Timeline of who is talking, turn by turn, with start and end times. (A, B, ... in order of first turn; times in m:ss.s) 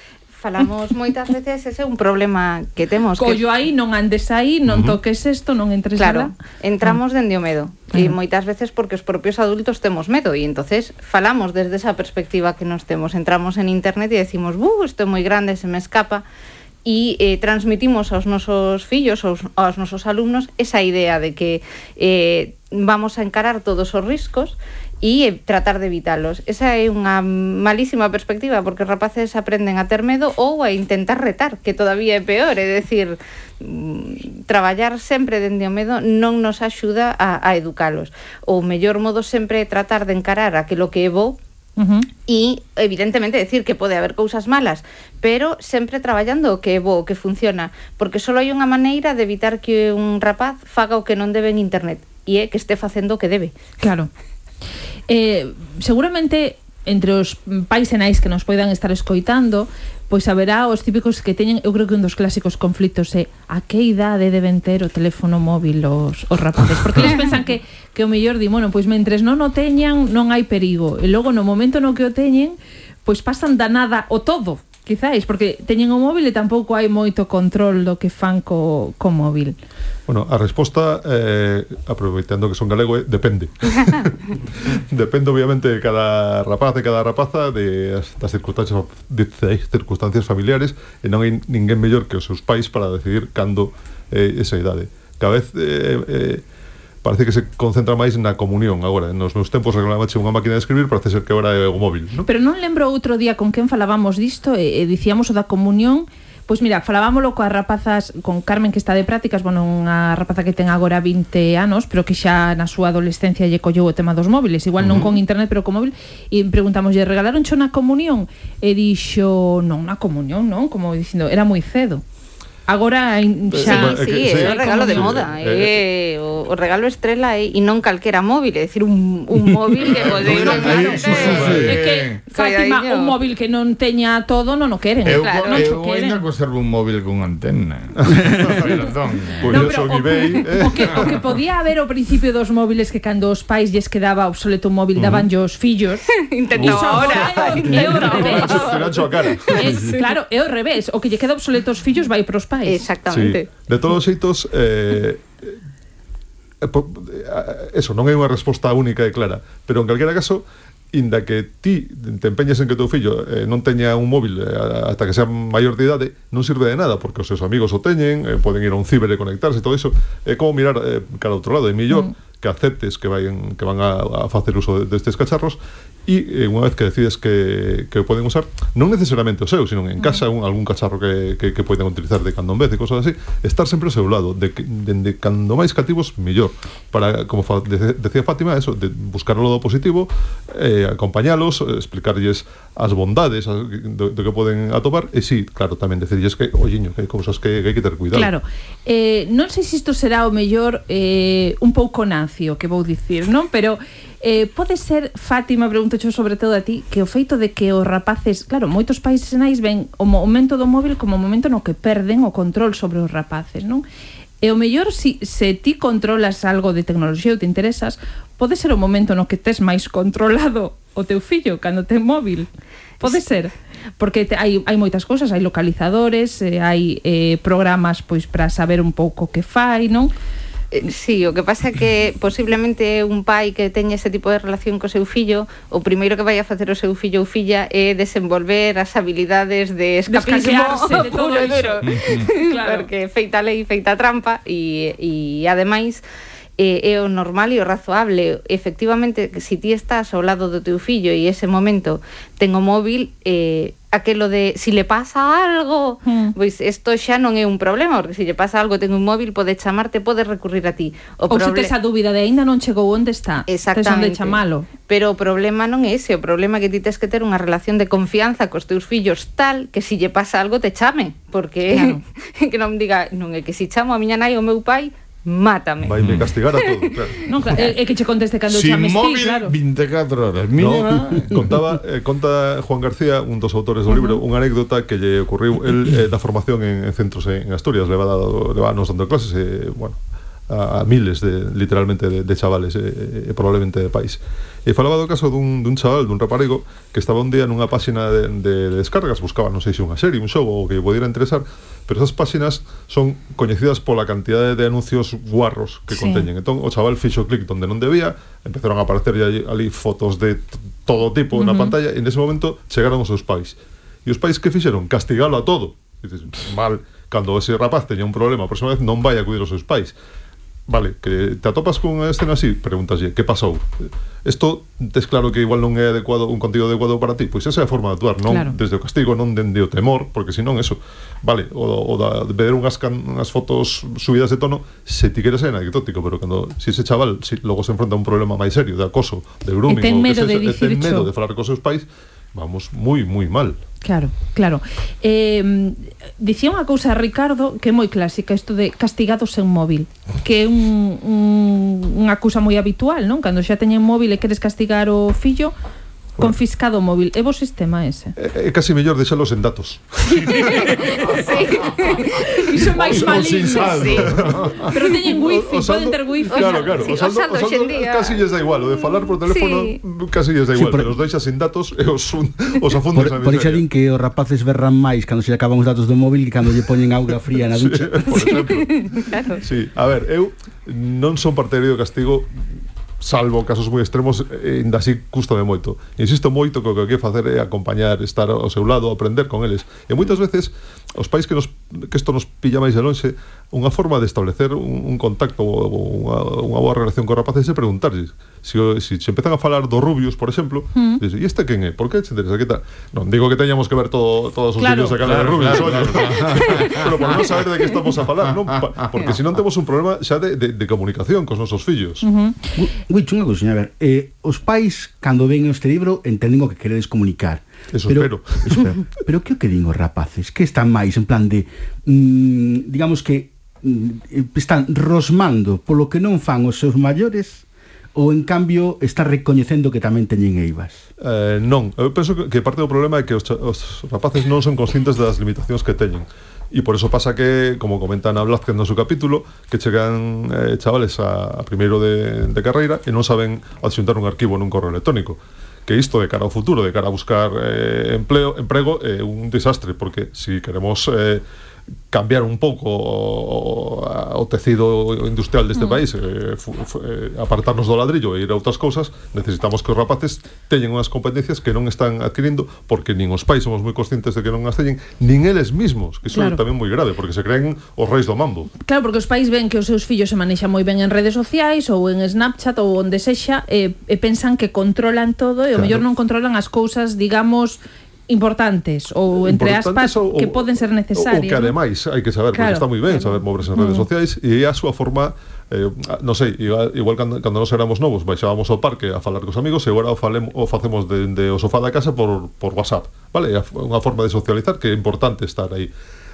0:00.4-0:03.4 A
0:03.2-0:06.3 B
0:04.7-0:05.0 C
0:06.0-0:16.2 A
0:16.8-0:41.4 A
0:41.8-0:42.1 B
0:42.2-0:53.5 A
0:53.8-0:54.1 B
0:55.1-1:19.6 B
1:20.1-1:36.4 C
1:37.0-1:42.3 C
1:42.2-2:02.0 B
1:54.8-1:55.2 C
2:02.7-2:05.3 B
2:03.5-2:05.7 C
2:03.6-2:13.2 A
2:09.8-2:12.2 D
2:10.0-2:11.7 C
2:10.9-2:16.2 B
2:15.0-2:19.6 D
2:15.1-2:15.7 A
2:18.4-2:18.7 C
2:19.4-2:21.2 C
2:19.4-2:28.9 B
2:25.0-2:25.3 C
2:26.1-2:30.1 A
2:26.5-2:29.6 C
2:29.4-2:32.9 B
2:32.7-2:33.5 A
2:33.0-2:35.6 C
2:36.6-3:18.3 C
3:18.1-3:33.8 B
3:34.4-3:42.5 B
3:43.0-3:50.1 B
3:50.7-4:06.0 A
4:00.1-4:02.9 B
4:01.8-4:02.3 D
4:06.6-4:21.7 A
4:16.0-4:16.3 B
4:21.3-4:24.7 B
4:23.5-4:36.9 A
4:31.7-4:32.0 B
4:35.8-4:37.3 C
4:36.0-4:36.3 D
4:37.3-4:39.5 B
4:38.5-4:41.4 D
4:40.6-4:50.0 C
4:43.9-4:44.2 B
4:50.5-5:20.0 C
5:05.9-5:06.3 B
5:11.4-5:11.7 B
5:20.7-5:43.6 C
5:28.3-5:28.6 B
5:39.7-5:41.1 B
5:43.8-5:55.5 B
5:56.2-5:58.1 B
5:58.2-6:01.8 C
6:00.1-6:02.3 A
6:00.6-6:04.0 B
6:02.6-6:13.6 C
6:02.9-6:04.7 D
6:04.6-6:06.9 B
6:06.3-6:09.8 A
6:10.5-6:10.9 E
6:12.9-6:18.4 E
6:17.5-6:22.5 C
6:18.1-6:19.4 A
6:23.0-6:52.0 C
6:40.8-6:41.0 B
6:44.6-6:45.0 B
6:45.0-6:47.4 D
6:48.0-6:49.0 D
6:52.0-6:52.5 B
6:52.6-7:10.8 E
6:57.7-6:58.7 C
7:11.0-7:31.2 C
7:31.9-7:48.5 C
7:35.5-7:35.8 B
7:46.1-7:46.4 B
7:48.6-8:01.5 B
7:55.5-7:55.8 C
7:59.1-8:15.7 C
8:02.3-8:03.9 B